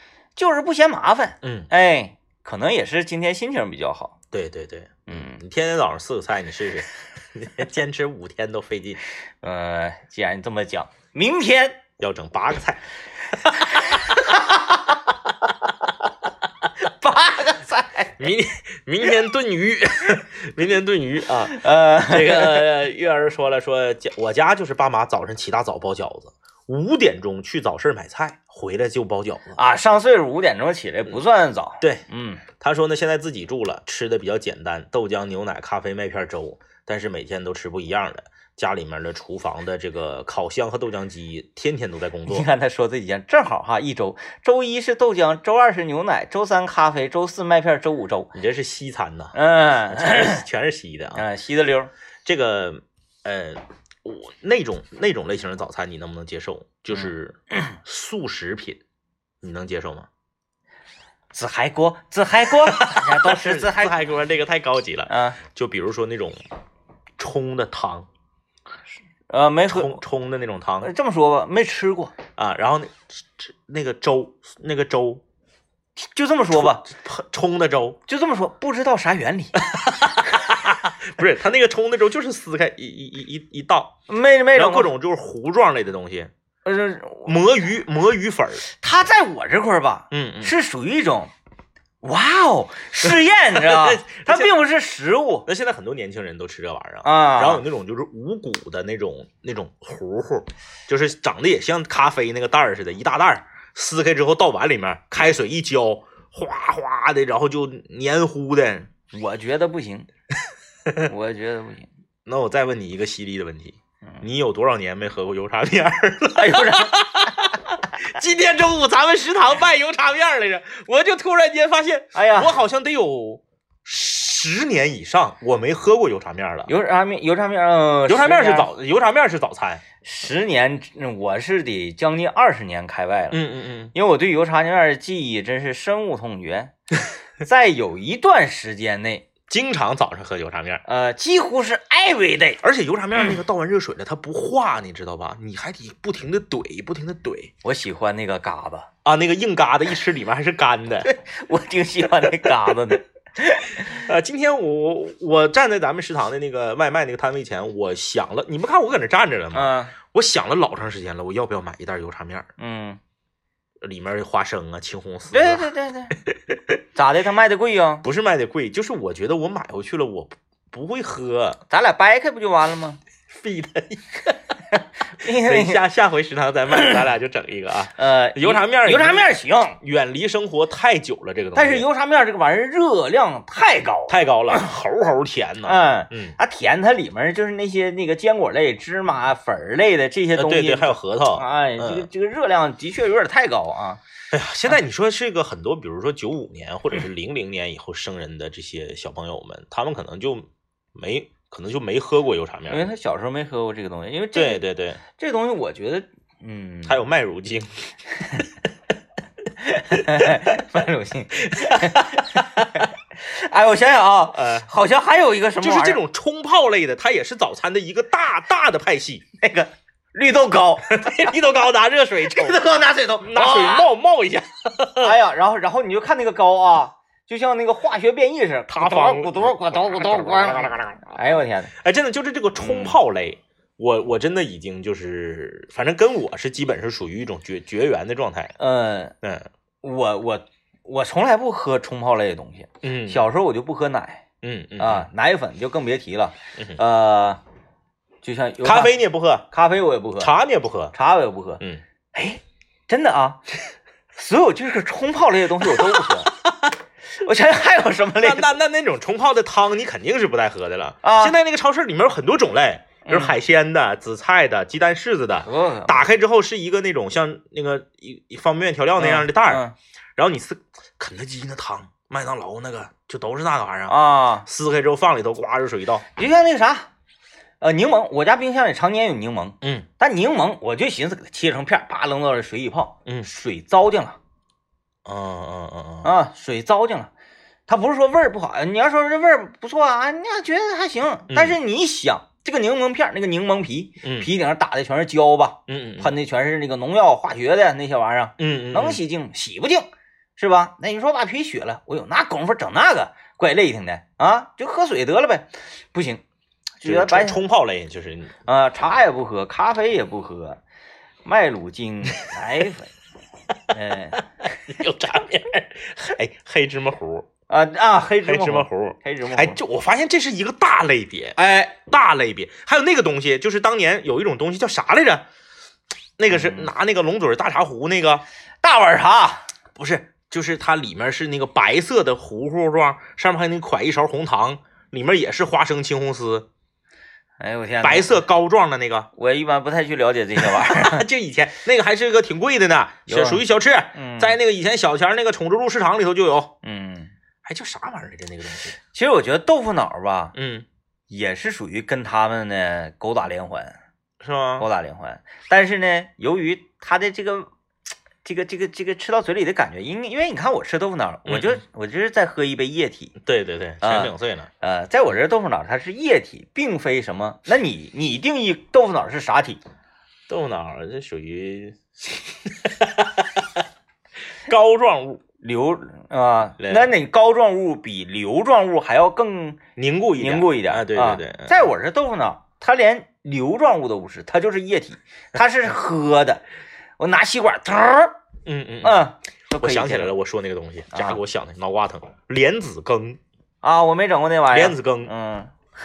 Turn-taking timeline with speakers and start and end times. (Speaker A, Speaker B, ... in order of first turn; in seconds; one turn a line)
Speaker A: 0.3-4.2
Speaker B: 1.4-1.7
Speaker B: 4.3-9.0
Speaker A: 5.1-5.4
Speaker A: 9.4-11.8
Speaker B: 12.0-14.3
Speaker A: 13.8-14.6
Speaker A: 16.8-18.2
Speaker B: 18.2-29.6
Speaker A: 21.5-22.7
Speaker A: 29.6-32.4
Speaker B: 31.8-42.5
Speaker A: 42.2-48.3
Speaker B: 48.3-51.2
Speaker A: 49.3-50.4
Speaker A: 51.1-51.9
Speaker B: 52.2-58.8
Speaker B: 59.4-60.1
Speaker A: 61.3-64.0
Speaker B: 62.5-66.4
Speaker A: 65.1-65.4
Speaker B: 67.2-68.1
Speaker A: 69.3-70.0
Speaker B: 69.7-70.9
Speaker A: 70.8-72.1
Speaker B: 72.4-75.2
Speaker A: 76.0-76.8
Speaker B: 76.5-78.0
Speaker A: 78.1-79.6
Speaker B: 79.6-84.0
Speaker A: 84.1-84.9
Speaker B: 84.5-86.3
Speaker A: 86.6-87.4
Speaker B: 87.2-88.6
Speaker A: 88.7-91.3
Speaker B: 90.1-90.5
Speaker A: 92.0-95.5
Speaker B: 93.5-94.5
Speaker B: 95.5-108.9
Speaker A: 97.0-97.6
Speaker A: 109.1-110.1
Speaker A: 111.0-111.9
Speaker B: 112.2-126.7
Speaker A: 116.3-117.0
Speaker A: 122.1-122.6
Speaker A: 126.7-128.7
Speaker B: 128.1-129.8
Speaker A: 130.0-133.4
Speaker B: 133.3-133.9
Speaker A: 133.9-136.7
Speaker A: 137.4-139.3
Speaker B: 139.5-140.8
Speaker A: 140.8-142.6
Speaker B: 142.6-147.5
Speaker A: 147.6-148.9
Speaker B: 149.0-151.1
Speaker A: 151.0-154.0
Speaker B: 153.8-162.5
Speaker A: 159.5-159.9
Speaker A: 162.6-163.0
Speaker B: 163.8-165.7
Speaker A: 165.3-166.2
Speaker B: 166.3-166.7
Speaker A: 166.9-168.0
Speaker B: 168.0-171.6
Speaker A: 171.7-173.0
Speaker B: 173.3-174.4
Speaker A: 175.2-175.8
Speaker B: 175.2-181.8
Speaker A: 178.0-179.8
Speaker A: 181.5-184.7
Speaker B: 184.1-186.3
Speaker A: 185.6-194.0
Speaker B: 190.3-192.1
Speaker B: 194.3-202.9
Speaker A: 202.7-207.0
Speaker B: 204.3-205.0
Speaker B: 206.8-207.8
Speaker A: 209.6-216.0
Speaker B: 209.9-210.5
Speaker B: 211.5-212.7
Speaker B: 214.3-214.7
Speaker B: 215.6-219.2
Speaker A: 219.4-221.1
Speaker B: 220.9-222.6
Speaker A: 222.2-223.9
Speaker B: 223.2-225.1
Speaker A: 225.0-231.7
Speaker B: 228.7-229.6
Speaker B: 230.2-230.4
Speaker B: 231.8-238.5
Speaker A: 232.6-233.0
Speaker A: 238.6-239.1
Speaker B: 239.2-239.5
Speaker A: 239.8-244.2
Speaker B: 242.8-243.2
Speaker B: 244.4-245.1
Speaker A: 244.8-247.4
Speaker A: 248.2-249.0
Speaker B: 248.6-249.5
Speaker A: 249.5-250.3
Speaker B: 250.2-250.9
Speaker A: 250.9-251.6
Speaker A: 252.1-253.4
Speaker A: 254.1-256.3
Speaker B: 255.6-256.7
Speaker A: 257.2-258.5
Speaker B: 258.2-269.6
Speaker A: 261.0-261.3
Speaker A: 263.0-263.4
Speaker A: 265.4-266.0
Speaker A: 269.0-269.7
Speaker B: 270.2-276.1
Speaker A: 273.9-274.5
Speaker A: 276.1-276.9
Speaker A: 277.6-284.2
Speaker B: 279.6-279.9
Speaker B: 285.0-286.1
Speaker A: 286.0-287.1
Speaker A: 287.7-306.2
Speaker B: 291.3-291.6
Speaker B: 294.0-294.3
Speaker B: 295.7-296.1
Speaker B: 298.4-299.0
Speaker A: 306.8-307.4
Speaker B: 306.8-308.3
Speaker A: 308.4-310.6
Speaker A: 311.2-312.9
Speaker A: 313.7-314.2
Speaker B: 314.6-317.3
Speaker A: 317.5-319.6
Speaker B: 318.2-321.4
Speaker A: 321.4-321.8
Speaker B: 321.9-325.2
Speaker B: 326.2-328.2
Speaker A: 326.3-326.7
Speaker A: 328.6-329.5
Speaker B: 329.8-336.5
Speaker A: 337.4-338.2
Speaker B: 337.8-339.1
Speaker A: 339.1-341.0
Speaker B: 340.4-346.5
Speaker A: 343.1-344.4
Speaker A: 346.6-347.1
Speaker B: 347.4-348.8
Speaker A: 348.9-350.3
Speaker B: 350.3-350.6
Speaker A: 351.1-353.8
Speaker B: 354.2-354.6
Speaker A: 354.6-357.5
Speaker A: 358.2-363.1
Speaker B: 361.2-361.6
Speaker B: 363.2-364.5
Speaker A: 363.8-369.6
Speaker B: 370.3-373.6
Speaker B: 374.4-375.2
Speaker A: 375.4-379.6
Speaker B: 376.6-376.9
Speaker B: 379.8-381.7
Speaker A: 380.2-386.4
Speaker A: 387.0-388.1
Speaker B: 388.4-389.1
Speaker A: 388.8-390.1
Speaker B: 389.6-393.2
Speaker A: 390.9-391.2
Speaker A: 393.6-395.5
Speaker B: 394.5-395.1